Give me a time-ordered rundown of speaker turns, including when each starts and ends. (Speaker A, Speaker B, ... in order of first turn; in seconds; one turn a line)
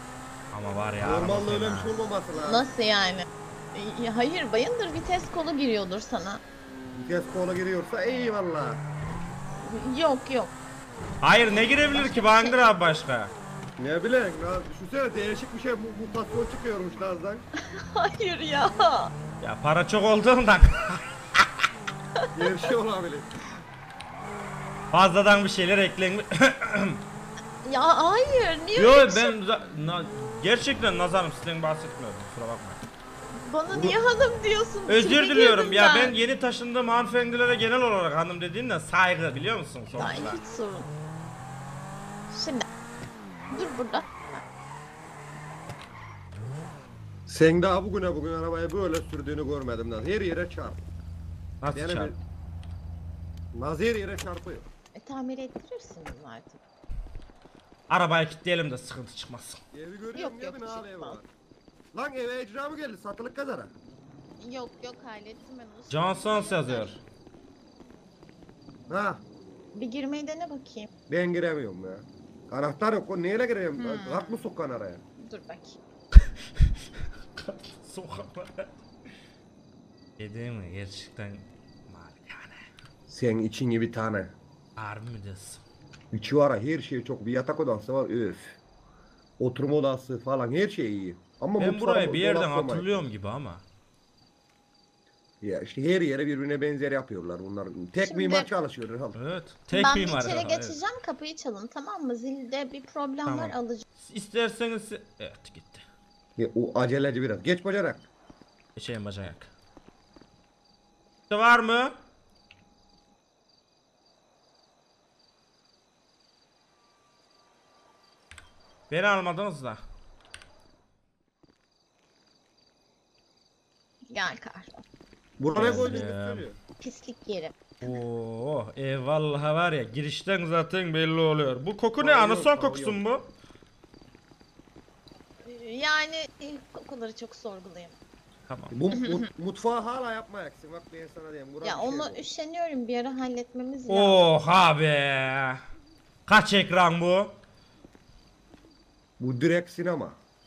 Speaker A: 0.5-2.0
Speaker B: 1.0-2.6
Speaker C: 2.4-6.4
Speaker B: 6.9-8.8
Speaker C: 9.6-10.5
Speaker A: 11.2-13.3
Speaker C: 11.9-12.7
Speaker B: 13.8-17.4
Speaker C: 17.6-19.1
Speaker A: 19.4-21.4
Speaker B: 22.3-23.3
Speaker A: 24.9-27.0
Speaker C: 27.6-29.3
Speaker A: 28.8-32.8
Speaker C: 33.4-36.1
Speaker A: 34.9-40.4
Speaker C: 39.9-40.9
Speaker C: 42.3-42.6
Speaker C: 43.5-44.4
Speaker B: 47.3-50.8
Speaker A: 51.6-52.1
Speaker B: 51.7-52.2
Speaker B: 53.5-54.6
Speaker C: 54.9-56.6
Speaker A: 57.9-59.6
Speaker B: 59.7-61.2
Speaker C: 60.1-61.2
Speaker B: 61.9-63.7
Speaker C: 64.4-66.9
Speaker A: 65.9-67.0
Speaker B: 68.9-69.2
Speaker C: 69.7-70.9
Speaker B: 71.1-75.0
Speaker C: 73.8-74.4
Speaker C: 75.2-75.8
Speaker A: 77.3-78.7
Speaker A: 80.2-82.6
Speaker B: 83.1-84.3
Speaker A: 84.8-85.6
Speaker B: 86.1-88.6
Speaker B: 89.4-93.0
Speaker A: 91.6-93.6
Speaker B: 95.4-99.2
Speaker C: 98.0-98.5
Speaker A: 99.1-100.8
Speaker C: 99.7-103.8
Speaker A: 103.2-105.8
Speaker B: 106.4-108.1
Speaker A: 108.8-109.5
Speaker A: 111.3-111.9
Speaker A: 118.9-119.8
Speaker C: 124.1-124.8
Speaker B: 125.4-126.5
Speaker A: 125.5-126.5
Speaker C: 126.8-127.6
Speaker A: 127.8-133.2
Speaker B: 132.0-133.0
Speaker C: 135.4-138.0
Speaker A: 138.5-138.8
Speaker B: 138.7-142.2
Speaker C: 139.0-139.2
Speaker C: 141.6-144.3
Speaker A: 143.9-145.6
Speaker A: 146.3-147.3
Speaker B: 149.2-150.2